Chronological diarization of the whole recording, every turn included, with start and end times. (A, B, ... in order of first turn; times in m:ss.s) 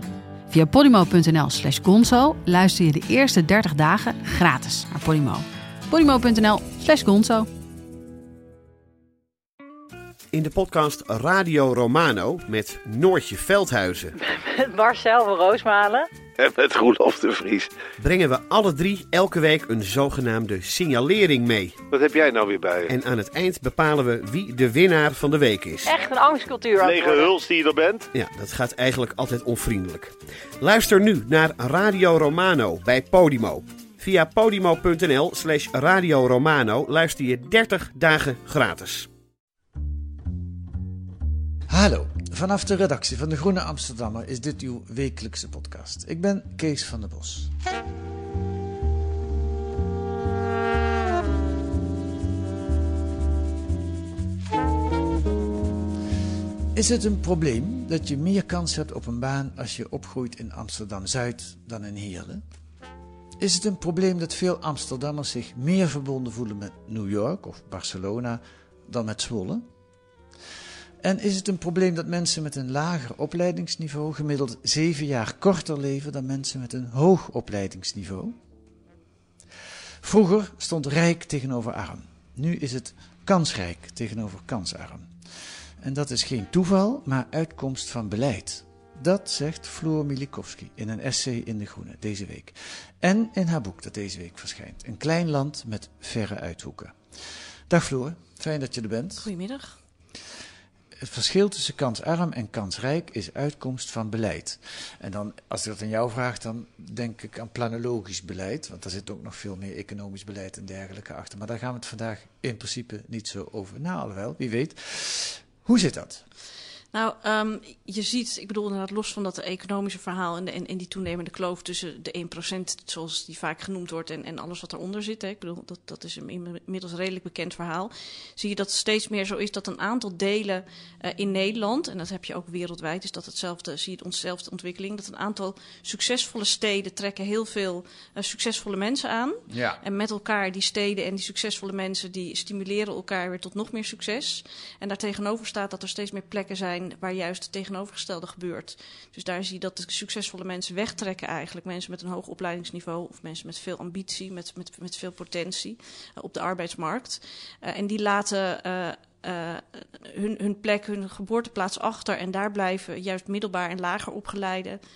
0:00.5-0:07.5 A
0:10.3-0:14.2 B
0:14.2-0:16.1 C
0:16.4-0:17.7 D
0:18.0-0:21.8 B
0:21.9-0:22.9 D
0:22.9-0:26.0 B
0:25.8-0:27.4 C
0:26.8-0:28.1 D
0:28.1-0:39.1 B
0:41.7-0:47.5 E
0:56.7-1:02.4 E
1:03.4-1:09.6 E
1:11.0-1:18.4 E
1:20.0-1:39.3 E
1:39.2-1:39.8 F
1:41.0-1:56.2 E
1:56.9-2:44.8 F
2:19.5-2:19.8 E